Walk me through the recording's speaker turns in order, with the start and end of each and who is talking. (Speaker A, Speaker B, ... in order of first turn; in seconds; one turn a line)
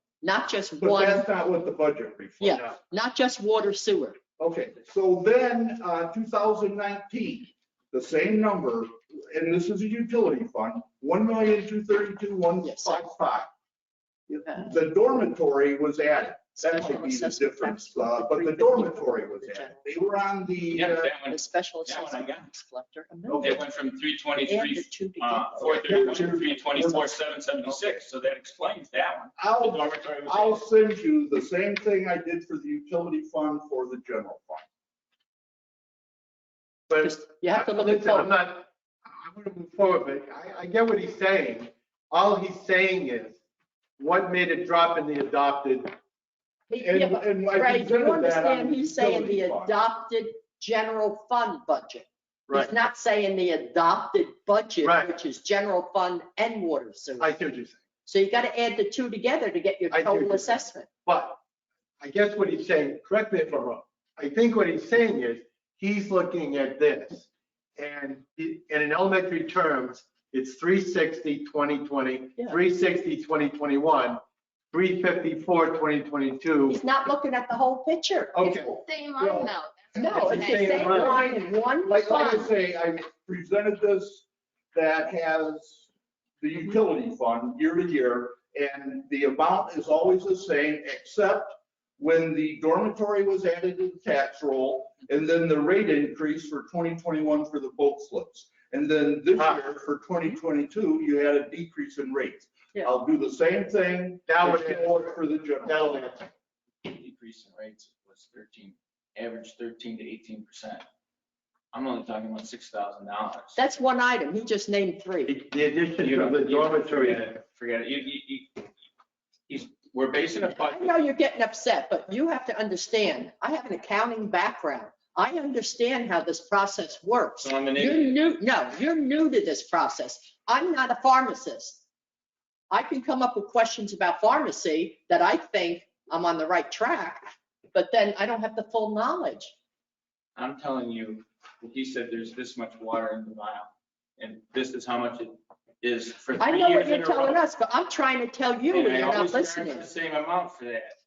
Speaker A: 0.2-1.3
Speaker B: 0.8-2.8
Speaker A: 2.4-4.2
Speaker B: 4.4-13.5
Speaker A: 12.6-13.1
Speaker B: 14.3-21.1
Speaker A: 14.4-14.8
Speaker A: 16.6-19.8
Speaker C: 20.7-22.5
Speaker A: 21.2-23.6
Speaker B: 23.3-23.6
Speaker C: 23.4-30.6
Speaker A: 24.4-26.5
Speaker B: 25.6-28.0
Speaker B: 29.4-34.6
Speaker D: 36.9-43.4
Speaker A: 37.0-38.3
Speaker D: 44.0-46.0
Speaker A: 46.7-57.4
Speaker B: 46.8-49.8
Speaker D: 54.8-55.1
Speaker D: 57.2-57.8
Speaker A: 58.1-60.9
Speaker D: 59.9-61.4
Speaker D: 62.0-74.2
Speaker D: 74.7-76.8
Speaker A: 76.7-78.7
Speaker D: 78.3-78.8
Speaker E: 78.7-81.2
Speaker B: 79.2-85.9
Speaker A: 80.0-82.5
Speaker D: 80.1-81.2
Speaker B: 86.4-106.0
Speaker D: 99.4-99.6
Speaker D: 104.3-106.3
Speaker C: 106.8-110.8
Speaker C: 111.7-113.6
Speaker A: 113.6-115.3
Speaker D: 115.3-117.3
Speaker C: 116.0-118.7
Speaker C: 119.5-120.9
Speaker A: 120.6-131.8
Speaker C: 127.4-128.2
Speaker A: 132.7-139.5
Speaker C: 140.4-147.4
Speaker A: 146.4-149.9
Speaker C: 148.7-150.9